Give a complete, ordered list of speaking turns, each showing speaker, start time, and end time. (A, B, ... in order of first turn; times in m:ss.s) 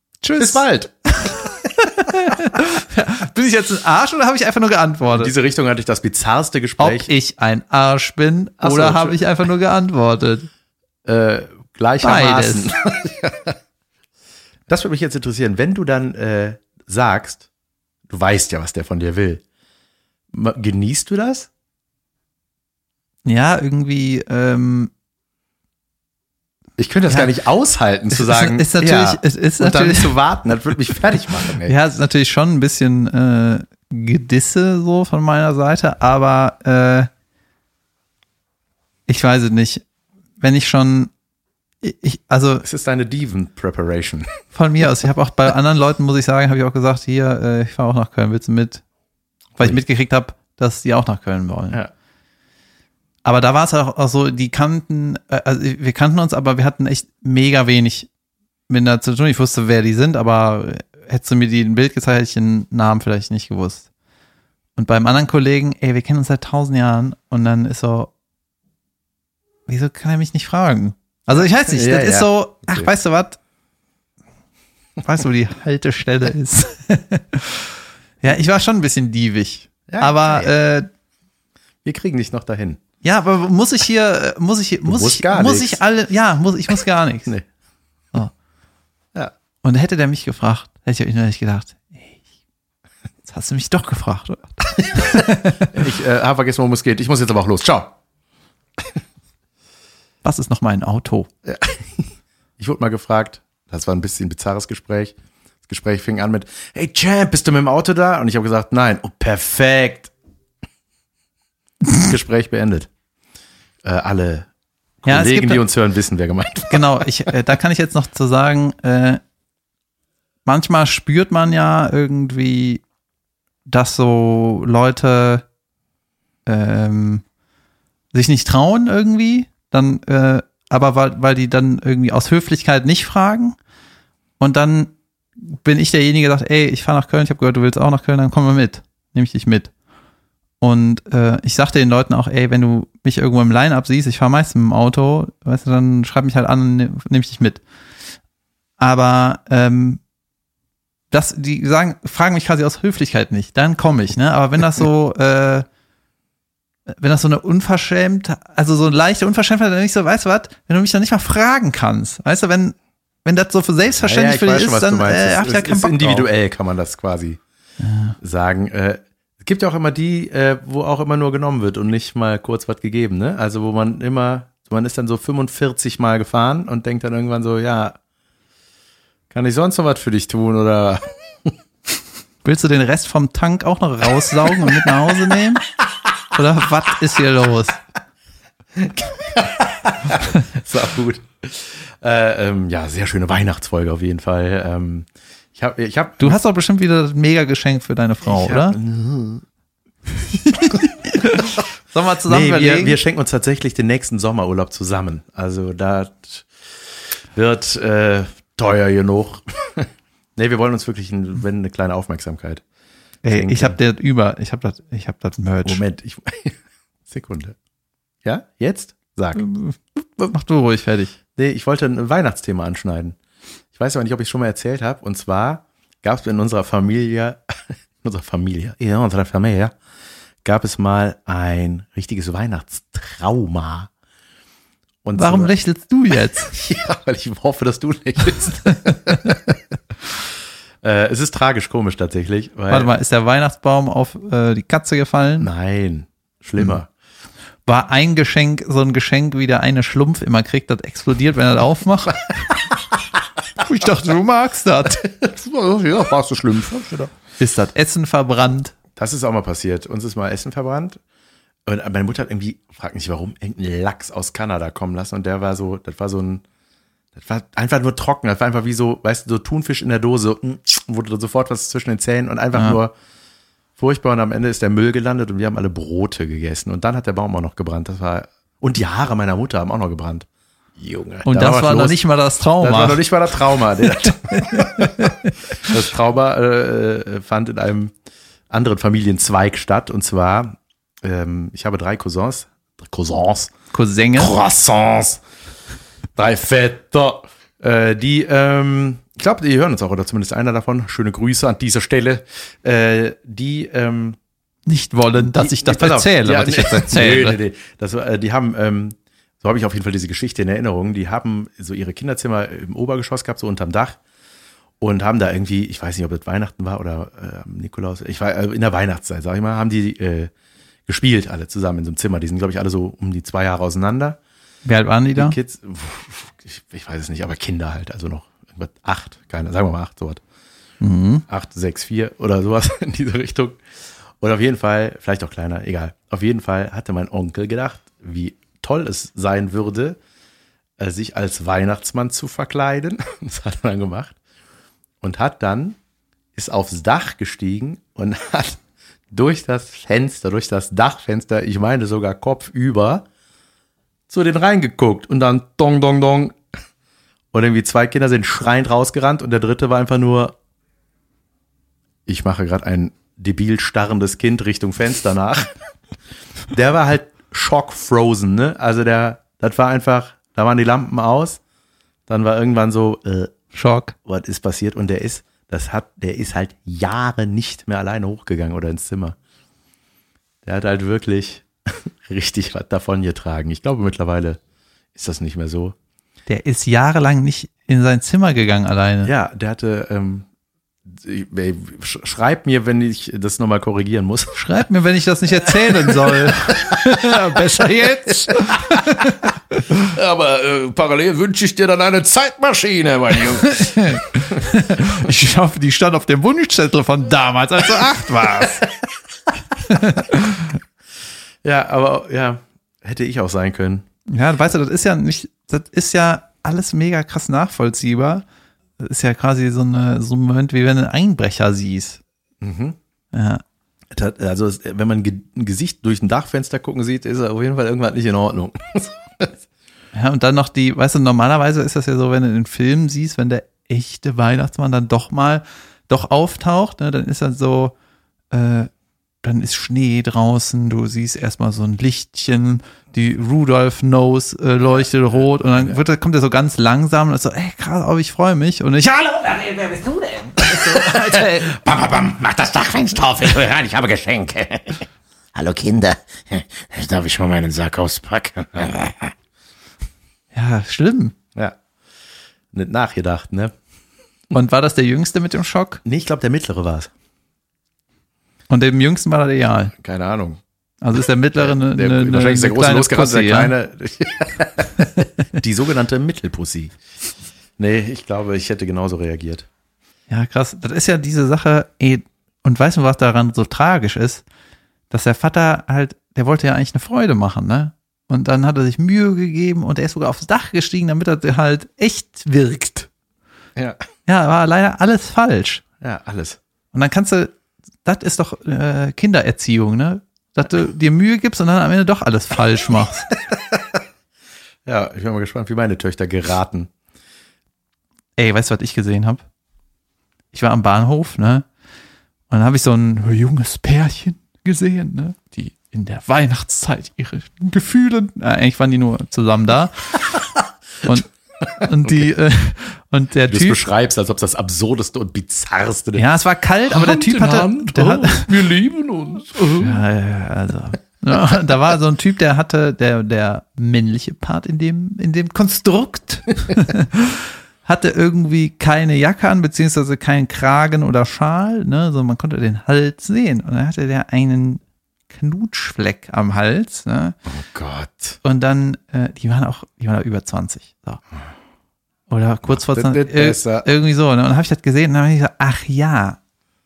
0:00.2-0:00.6 A
0:00.4-0:01.5 B
0:01.2-0:05.3 A
0:05.1-0:07.1 B
0:06.8-0:10.5 A
0:08.6-0:09.2 B
0:11.0-0:13.6 B
0:12.0-0:12.7 A
0:14.7-0:17.5 B
0:18.1-0:19.4 B
0:20.3-0:21.5 B
0:23.2-0:24.9 A
0:26.8-0:31.8 B
0:28.1-0:30.2 A
0:31.6-0:37.1 A
0:39.1-0:39.9 A
0:40.4-0:41.1 A
0:41.8-0:42.6 A
0:42.6-0:44.4 B
0:44.5-0:48.8 A
0:49.6-0:51.8 A
0:53.2-0:58.1 A
0:58.7-1:03.9 A
1:04.8-1:08.1 A
1:09.7-1:13.4 A
1:11.4-1:12.9 B
1:15.0-1:17.7 A
1:18.2-1:20.9 A
1:19.9-1:20.5 B
1:21.8-1:22.8 B
1:23.0-1:27.3 A
1:24.8-1:25.8 B
1:29.6-1:32.2 A
1:33.2-1:35.8 A
1:35.7-1:38.0 B
1:40.2-1:41.3 A
1:41.4-1:42.0 B
1:42.6-1:45.2 B
1:45.7-1:50.1 B
1:52.0-1:52.9 B
1:53.8-1:54.5 B
1:55.0-1:57.3 B
1:55.1-1:55.6 A
1:56.7-1:59.2 A
2:00.5-2:02.8 A
2:03.7-2:05.4 A
2:06.5-2:07.2 A
2:08.1-2:13.6 A
2:14.4-2:19.7 A
2:20.6-2:27.6 A
2:28.8-2:30.0 A
2:31.1-2:35.7 A
2:36.9-2:46.3 A
2:44.0-2:47.4 B
2:47.8-2:48.2 A
2:48.2-2:58.0 B
2:59.3-3:01.5 B
3:02.4-3:05.6 A
3:06.3-3:07.8 A
3:08.7-3:16.4 B
3:16.2-3:18.8 A
3:18.2-3:19.4 B
3:20.3-3:23.0 A
3:22.3-3:32.6 B
3:33.2-3:35.8 A
3:33.2-3:33.8 B
3:35.6-3:37.6 B
3:38.2-3:39.4 B
3:39.4-3:41.2 A
3:41.4-3:43.2 B
3:43.8-3:49.8 B
3:50.4-3:53.9 B
3:55.0-3:55.5 B
3:55.2-3:56.5 A
3:56.4-3:59.6 B
4:00.8-4:02.9 B
4:02.7-4:05.5 A
4:05.4-4:06.9 B
4:07.7-4:12.5 A
4:13.6-4:15.0 A
4:15.0-4:17.1 B
4:17.4-4:18.7 A
4:19.0-4:21.0 B
4:21.7-4:26.4 B
4:27.2-4:32.9 B
4:32.5-4:32.8 A
4:33.8-4:42.0 B
4:41.2-4:43.0 A
4:42.6-4:47.9 B
4:44.0-4:45.7 A
4:48.5-4:53.5 B
4:53.7-4:54.4 A
4:54.2-4:55.2 B
4:56.2-5:04.2 B
5:04.7-5:07.4 A
5:05.2-5:14.0 B
5:14.8-5:20.3 B
5:20.9-5:24.2 B
5:24.6-5:25.4 A
5:25.2-5:30.2 B
5:30.8-5:31.2 A
5:31.3-5:33.6 B
5:34.2-5:40.0 B
5:40.8-5:44.2 B
5:45.0-5:45.8 B
5:46.4-5:53.1 B
5:54.1-5:56.4 B
5:57.3-6:00.4 B
6:02.1-6:05.5 B
6:06.5-6:11.4 B
6:12.1-6:13.4 B
6:13.5-6:14.0 A
6:14.0-6:19.2 B
6:20.4-6:24.4 B
6:25.0-6:25.8 B
6:26.3-6:29.1 A
6:29.0-6:30.3 B
6:30.9-6:34.4 B
6:34.4-6:39.6 A
6:35.5-6:39.2 B
6:39.8-6:44.0 B
6:43.4-6:48.7 A
6:49.6-6:50.6 A
6:51.4-6:53.9 B
6:54.1-6:58.2 A
6:58.8-7:02.0 A
7:02.4-7:02.8 B
7:03.1-7:03.4 A
7:03.9-7:09.4 B
7:09.9-7:17.7 A
7:18.3-7:18.7 A
7:19.2-7:31.5 A
7:30.6-7:39.1 C
7:40.3-7:41.2 A
7:42.5-7:43.5 B
7:44.3-7:45.8 A
7:45.8-7:46.9 B
7:48.5-7:49.7 A
7:49.8-7:50.4 B
7:50.8-7:53.5 A
7:51.4-7:56.8 B
7:57.6-7:59.5 B
8:00.1-8:04.2 A
8:04.9-8:12.9 A
8:13.6-8:13.8 B
8:14.1-8:15.6 A
8:15.8-8:16.4 B
8:16.7-8:23.1 A
8:23.3-8:23.6 B
8:24.6-8:26.7 B
8:28.2-8:29.2 A
8:30.3-8:31.5 A
8:32.3-8:40.2 A
8:40.8-8:43.6 A
8:43.3-8:46.1 B
8:46.0-8:48.3 A
8:46.7-8:49.8 B
8:49.6-9:07.2 A
9:07.3-9:08.2 B
9:08.2-9:11.0 A
9:12.1-9:16.2 A
9:12.5-9:13.7 B